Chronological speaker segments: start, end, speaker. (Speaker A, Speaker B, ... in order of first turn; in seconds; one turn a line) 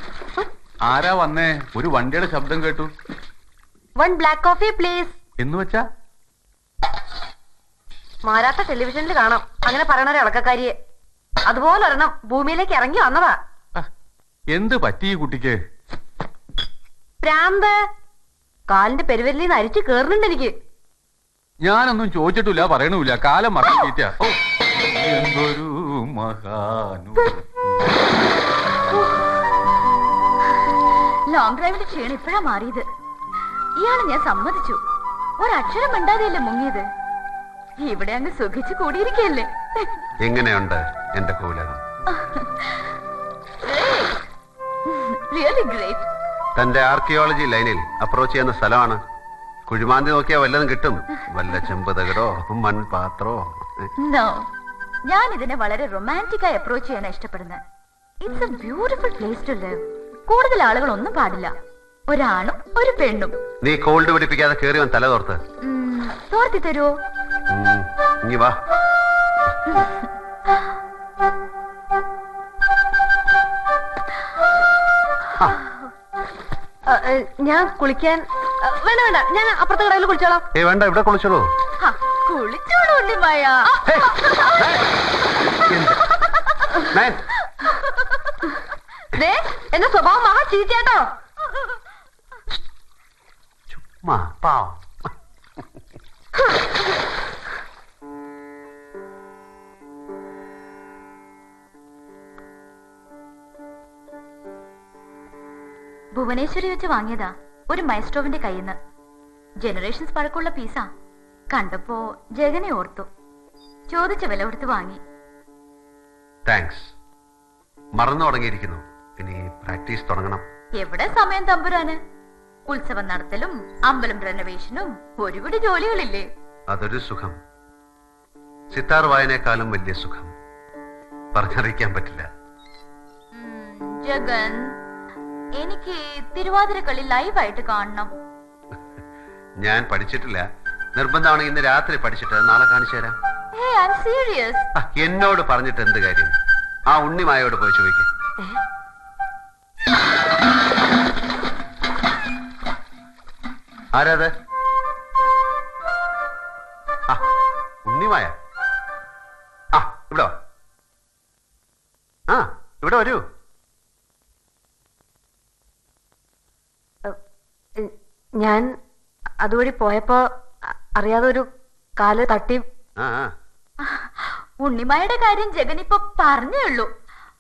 Speaker A: 0.8-2.9
Speaker B: 4.0-5.2
Speaker A: 5.4-5.9
Speaker B: 8.2-10.8
Speaker B: 11.5-13.4
Speaker A: 14.5-15.6
Speaker B: 17.2-17.8
Speaker B: 18.7-20.6
Speaker A: 21.6-24.4
Speaker A: 24.9-27.4
Speaker C: 31.3-32.9
Speaker C: 33.8-34.8
Speaker C: 35.4-36.9
Speaker C: 37.8-39.9
Speaker D: 40.2-41.8
Speaker C: 42.2-42.9
Speaker C: 43.6-44.2
Speaker C: 44.9-46.1
Speaker D: 46.6-49.0
Speaker D: 49.7-53.9
Speaker C: 54.0-54.5
Speaker C: 55.1-57.6
Speaker C: 58.2-61.5
Speaker C: 62.1-63.4
Speaker D: 63.6-65.4
Speaker C: 65.6-67.0
Speaker D: 67.5-68.5
Speaker B: 76.9-80.5
Speaker D: 80.5-81.5
Speaker C: 81.8-84.6
Speaker D: 83.8-84.9
Speaker D: 85.7-86.0
Speaker D: 86.9-87.2
Speaker B: 89.2-91.1
Speaker D: 93.7-95.1
Speaker C: 106.1-108.8
Speaker C: 109.6-110.9
Speaker C: 111.5-113.1
Speaker C: 113.9-115.0
Speaker D: 116.5-116.9
Speaker D: 118.0-120.4
Speaker C: 120.8-122.0
Speaker C: 122.7-126.3
Speaker D: 126.7-127.3
Speaker D: 128.7-130.3
Speaker D: 131.3-132.3
Speaker C: 133.3-134.8
Speaker C: 135.6-138.1
Speaker D: 139.6-140.4
Speaker D: 141.0-143.2
Speaker C: 143.6-144.7
Speaker D: 144.8-146.3
Speaker D: 146.9-148.1
Speaker D: 153.9-154.3
Speaker D: 157.9-158.3
Speaker D: 159.7-160.3
Speaker D: 162.3-163.2
Speaker B: 167.8-168.7
Speaker B: 169.4-171.5
Speaker B: 172.0-172.6
Speaker D: 173.0-173.3
Speaker C: 173.8-176.9